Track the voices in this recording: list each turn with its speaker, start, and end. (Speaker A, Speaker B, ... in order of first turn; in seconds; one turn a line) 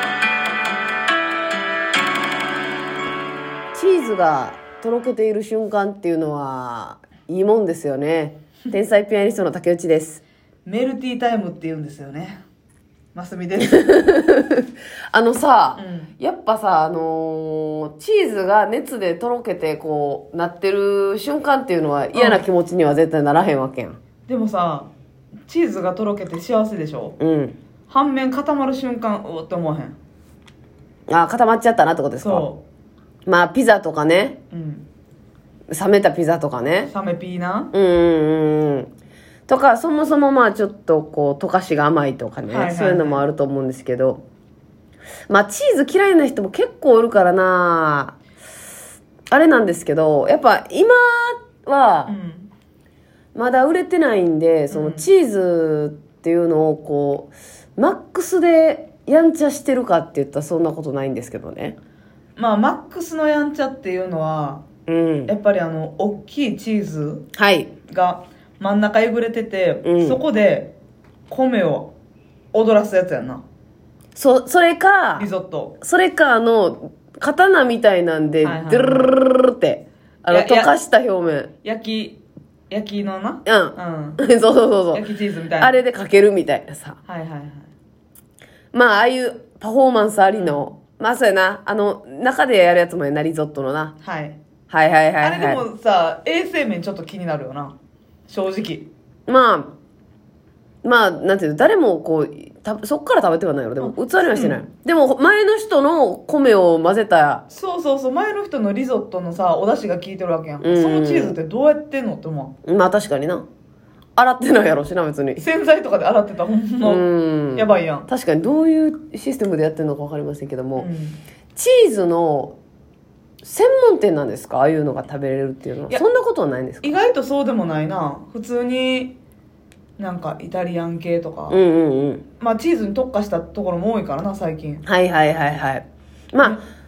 Speaker A: 3.7-10.2
Speaker B: 10.7-12.4
Speaker B: 13.1-14.1
Speaker A: 13.7-24.0
Speaker B: 15.8-16.1
Speaker B: 22.1-22.5
Speaker B: 24.3-24.9
Speaker B: 25.5-27.2
Speaker A: 27.2-27.6
Speaker B: 27.9-30.0
Speaker A: 31.1-32.5
Speaker B: 32.2-32.6
Speaker A: 33.3-34.4
Speaker B: 34.5-34.9
Speaker A: 35.7-36.9
Speaker B: 36.9-37.7
Speaker A: 37.7-38.9
Speaker A: 39.5-44.2
Speaker B: 42.5-43.2
Speaker A: 45.3-48.2
Speaker A: 49.3-52.1
Speaker B: 52.1-52.5
Speaker A: 53.4-61.8
Speaker B: 54.7-55.1
Speaker B: 62.4-64.6
Speaker A: 64.9-65.3
Speaker B: 65.3-67.2
Speaker A: 67.3-67.7
Speaker B: 67.9-70.7
Speaker A: 69.8-70.2
Speaker B: 71.3-71.9
Speaker B: 72.5-73.4
Speaker A: 74.2-75.3
Speaker B: 75.2-75.8
Speaker A: 75.8-81.5
Speaker B: 78.4-79.1
Speaker B: 80.3-80.7
Speaker B: 81.6-82.2
Speaker B: 82.7-84.2
Speaker A: 83.5-85.0
Speaker B: 84.9-85.8
Speaker A: 85.6-87.0
Speaker B: 87.1-87.7
Speaker A: 88.7-94.0
Speaker B: 90.3-90.7
Speaker B: 94.0-94.4
Speaker A: 94.7-95.6
Speaker B: 95.2-97.8
Speaker B: 98.3-98.9
Speaker A: 99.3-99.8
Speaker A: 100.8-107.4
Speaker B: 103.8-104.6
Speaker B: 107.5-112.5
Speaker A: 110.6-111.4
Speaker A: 112.7-113.5
Speaker A: 114.2-115.4
Speaker B: 115.4-118.1
Speaker A: 116.8-120.9
Speaker B: 120.8-121.2
Speaker A: 121.5-122.6
Speaker A: 123.4-127.0
Speaker B: 126.8-129.2
Speaker B: 130.0-131.6
Speaker A: 131.5-132.2
Speaker B: 132.4-134.8
Speaker A: 134.8-136.6